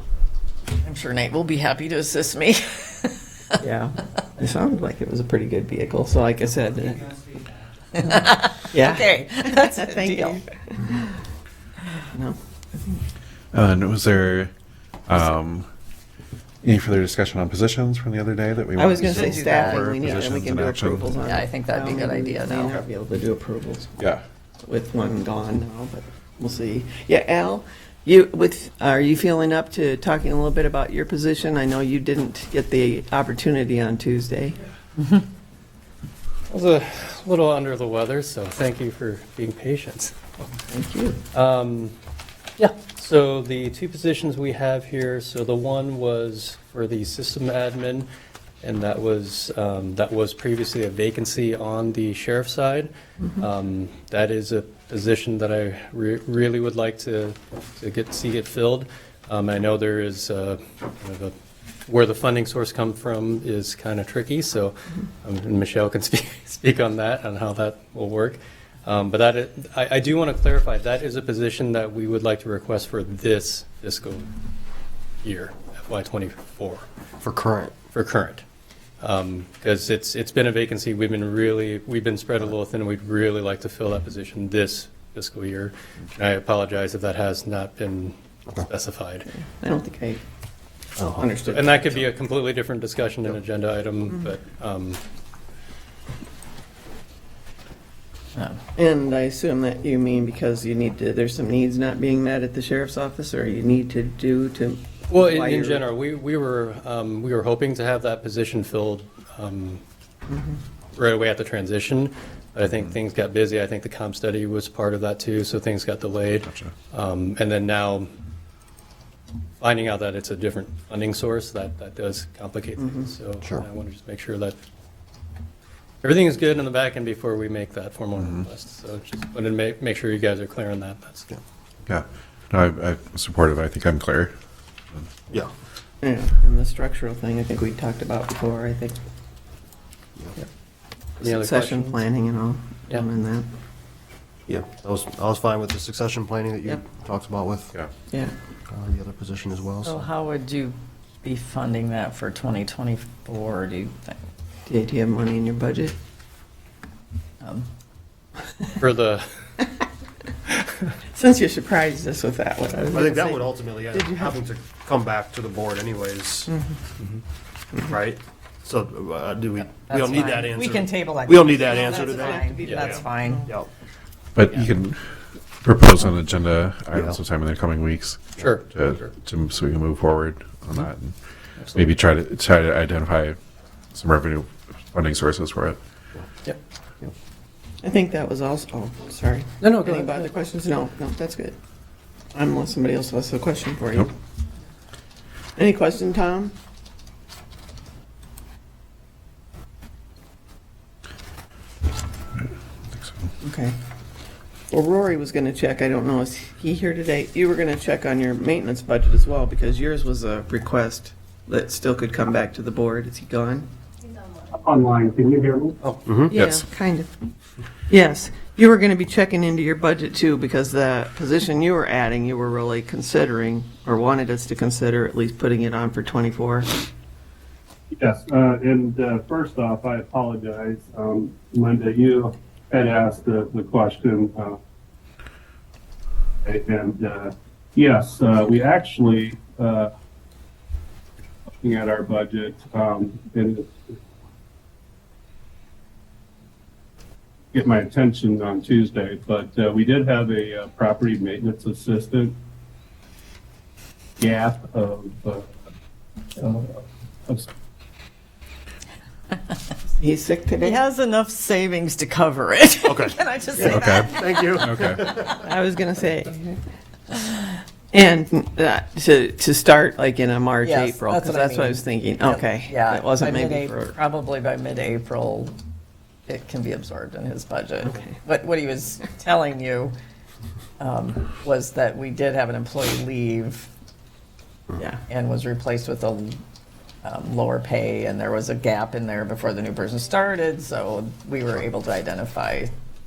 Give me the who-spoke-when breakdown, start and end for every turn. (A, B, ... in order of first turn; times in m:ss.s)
0:00.8-0:03.6 A
0:03.6-0:07.2 B
0:08.0-0:10.4 A
0:08.7-0:11.1 B
0:12.1-0:13.0 B
0:13.5-0:14.5 C
0:15.1-0:15.7 C
0:16.6-0:21.1 C
0:18.8-0:24.0 B
0:18.9-0:20.2 A
0:21.2-0:22.8 A
0:24.6-0:34.6 B
0:36.5-0:40.1 D
0:40.5-0:41.2 B
0:41.3-0:41.9 D
0:42.6-0:48.1 D
0:48.6-1:01.3 D
1:01.9-1:14.3 D
1:15.2-1:16.9 D
1:17.2-1:17.8 E
1:17.9-1:18.4 D
1:19.0-1:29.3 D
1:29.3-1:30.2 B
1:31.0-1:31.4 E
1:31.2-1:32.0 B
1:31.5-1:35.0 D
1:38.8-1:45.8 B
1:45.1-1:49.8 D
1:51.0-1:58.1 D
1:56.4-1:56.7 C
1:59.6-2:04.6 D
2:02.8-2:03.1 B
2:06.0-2:11.3 D
2:11.9-2:14.3 C
2:16.0-2:19.0 B
2:21.2-2:22.0 D
2:21.2-2:23.5 B
2:24.5-2:27.7 E
2:28.7-2:30.0 E
2:29.8-2:34.2 A
2:34.7-2:36.0 B
2:38.8-2:39.2 D
2:41.1-2:44.3 B
2:42.9-2:46.5 E
2:46.5-2:46.8 B
2:47.8-2:53.7 E
2:49.7-2:53.5 A
2:51.8-2:53.5 B
2:52.6-2:53.0 D
2:54.4-2:55.0 C
2:55.6-3:01.2 C
2:58.4-2:59.1 D
3:01.6-3:01.9 D
3:01.7-3:03.4 C
3:03.9-3:05.8 C
3:07.8-3:11.6 B
3:09.6-3:10.3 D
3:12.3-3:14.1 B
3:15.6-3:16.5 B
3:22.9-3:23.3 C
3:23.4-3:23.8 B
3:24.7-3:33.7 B
3:34.5-3:35.8 F
3:36.0-3:36.4 E
3:36.3-3:37.1 B
3:37.9-3:46.7 B
3:48.0-3:54.6 F
3:56.4-3:59.9 F
4:01.6-4:03.9 F
4:07.5-4:12.3 F
4:14.2-4:15.4 F
4:16.4-4:17.5 F
4:20.0-4:20.8 B
4:20.6-4:25.1 A
4:22.8-4:25.4 E
4:23.7-4:25.0 C
4:25.3-4:26.6 B
4:27.9-4:34.0 B
4:30.6-4:35.6 A
4:36.3-4:39.9 A
4:37.8-4:38.2 B
4:40.8-4:43.7 A
4:44.8-4:45.0 B
4:45.1-4:46.4 A
4:47.0-4:52.7 A